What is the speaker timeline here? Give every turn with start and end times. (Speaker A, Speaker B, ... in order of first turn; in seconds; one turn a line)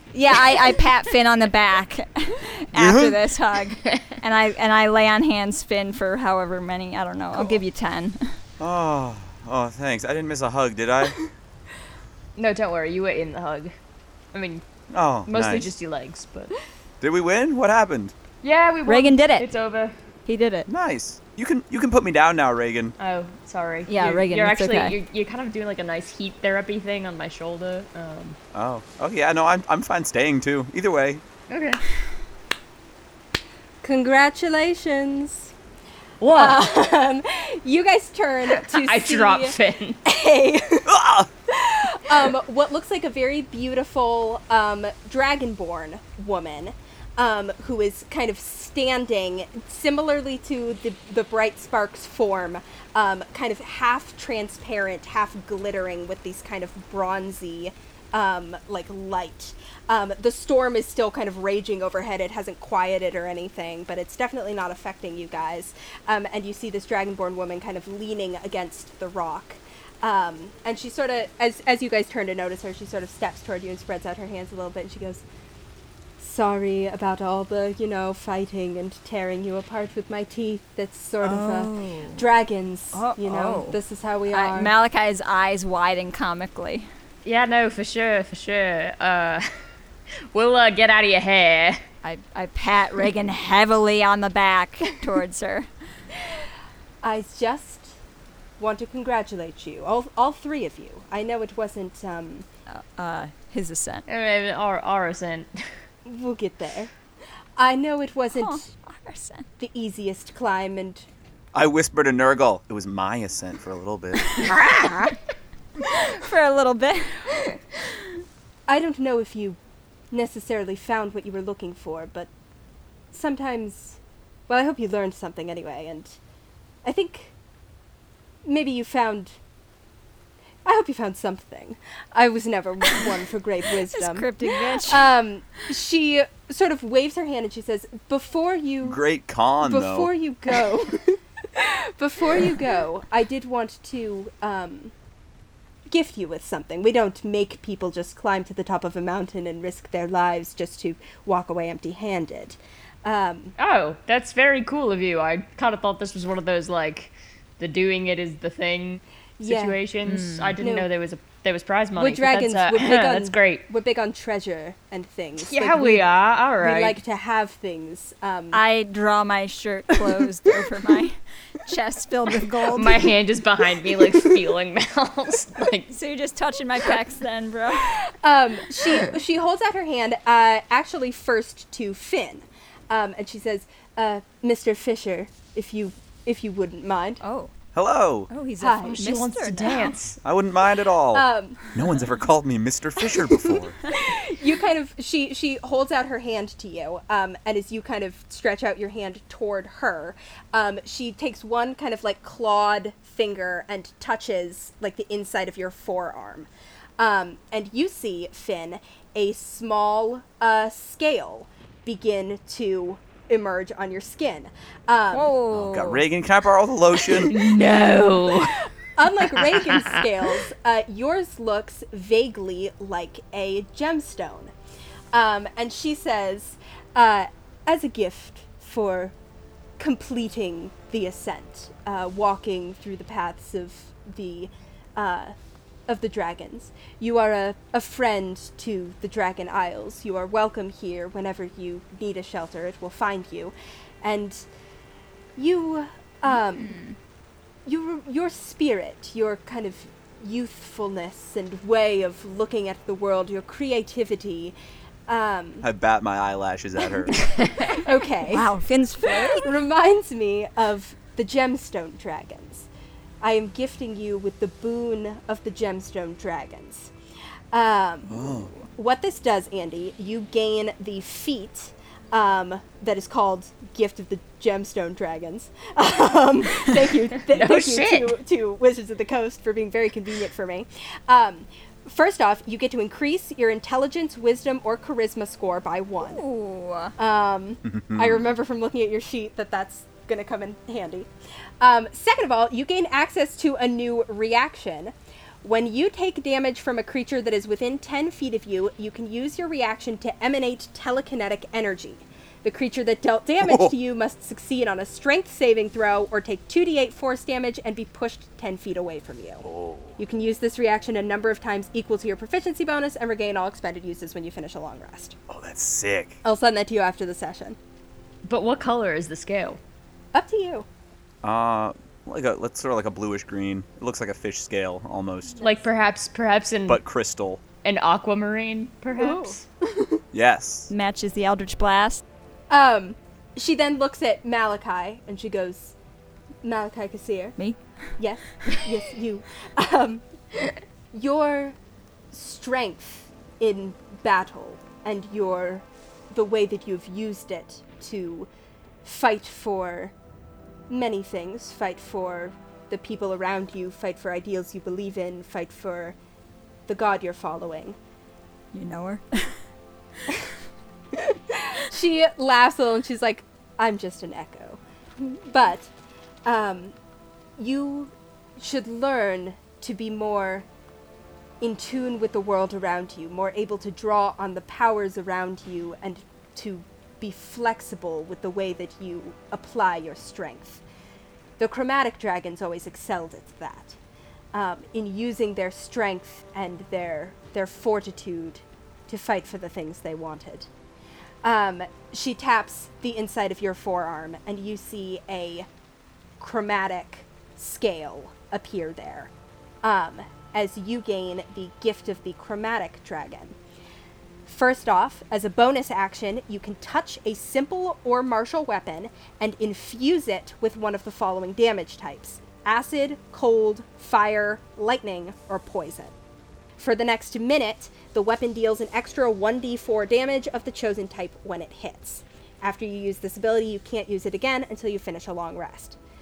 Speaker A: 0.1-8.2
Speaker B: 2.7-3.2
Speaker B: 8.6-11.2
Speaker C: 12.3-13.7
Speaker C: 14.3-14.6
Speaker B: 14.9-15.7
Speaker C: 15.2-16.5
Speaker B: 17.0-18.1
Speaker C: 18.4-19.9
Speaker A: 18.9-19.5
Speaker A: 20.3-20.7
Speaker B: 20.7-22.9
Speaker C: 23.0-28.4
Speaker A: 23.9-24.9
Speaker B: 28.5-31.2
Speaker C: 31.5-31.8
Speaker D: 33.8-35.5
Speaker C: 36.2-36.6
Speaker D: 36.3-40.9
Speaker C: 38.5-40.0
Speaker B: 40.9-41.3
Speaker D: 41.5-75.2
Speaker D: 76.2-84.7
Speaker A: 81.2-82.2
Speaker A: 82.9-83.8
Speaker A: 84.3-86.9
Speaker C: 87.2-89.5
Speaker C: 90.3-91.8
Speaker A: 92.0-95.7
Speaker D: 97.0-97.9
Speaker D: 98.6-102.5
Speaker A: 102.7-104.0
Speaker C: 104.1-105.6
Speaker D: 106.0-106.9
Speaker D: 107.5-108.7
Speaker A: 108.3-109.5
Speaker D: 109.6-111.1
Speaker B: 111.5-114.5
Speaker A: 114.4-115.1
Speaker D: 114.4-115.1
Speaker A: 115.8-117.3
Speaker D: 118.7-119.6
Speaker D: 120.1-122.3
Speaker D: 123.1-126.2
Speaker D: 126.8-127.3
Speaker D: 128.4-129.3
Speaker D: 130.6-139.0
Speaker A: 133.9-135.1
Speaker B: 138.8-140.1
Speaker D: 139.6-144.9
Speaker D: 145.9-153.5
Speaker C: 153.6-163.7
Speaker D: 159.4-159.8
Speaker A: 160.1-160.6
Speaker D: 160.6-160.9
Speaker D: 161.9-166.1
Speaker C: 165.4-167.0
Speaker D: 166.6-168.6
Speaker A: 168.5-173.1
Speaker C: 172.7-175.9
Speaker D: 173.8-174.3
Speaker A: 175.9-178.0
Speaker D: 177.8-187.2
Speaker A: 187.2-187.5
Speaker B: 187.7-188.3
Speaker A: 188.3-189.9
Speaker D: 188.6-189.0
Speaker C: 188.8-190.2
Speaker B: 190.2-193.8
Speaker D: 191.1-191.7
Speaker D: 193.5-215.3
Speaker A: 215.1-216.0
Speaker B: 215.5-217.4
Speaker C: 217.1-218.5
Speaker D: 218.4-224.5
Speaker C: 219.3-219.9
Speaker D: 225.1-229.1
Speaker D: 229.8-235.3
Speaker D: 235.9-244.4
Speaker D: 245.3-246.7
Speaker A: 246.6-246.9
Speaker D: 247.6-254.5
Speaker D: 255.1-255.6
Speaker B: 255.6-257.2
Speaker C: 257.1-257.9
Speaker D: 257.7-258.5
Speaker A: 258.2-259.5
Speaker D: 259.1-262.7
Speaker D: 263.2-266.9
Speaker D: 267.5-286.2
Speaker B: 268.1-268.5
Speaker C: 277.3-278.1
Speaker A: 286.0-286.9
Speaker D: 287.0-291.1
Speaker B: 287.7-288.2
Speaker D: 291.6-315.1
Speaker B: 303.4-303.7
Speaker B: 309.4-310.0
Speaker B: 315.3-316.2
Speaker D: 316.2-317.6
Speaker C: 318.2-319.6
Speaker D: 320.1-320.6
Speaker B: 321.2-325.4
Speaker C: 325.4-326.8
Speaker B: 326.6-327.4
Speaker C: 327.6-329.4
Speaker D: 328.9-330.0
Speaker B: 330.1-330.7
Speaker A: 330.7-332.0
Speaker D: 332.5-335.7
Speaker D: 336.4-337.4
Speaker D: 338.0-341.6
Speaker D: 342.1-348.3
Speaker D: 348.8-349.9
Speaker D: 350.7-355.9
Speaker D: 356.7-357.8
Speaker A: 358.5-359.4
Speaker D: 360.9-365.7
Speaker D: 366.2-366.7
Speaker D: 367.4-370.4
Speaker D: 371.4-380.6
Speaker D: 381.4-383.8
Speaker D: 384.3-390.5
Speaker D: 391.2-395.5
Speaker D: 396.2-399.1
Speaker D: 399.6-403.4
Speaker D: 404.2-415.9
Speaker D: 416.6-425.8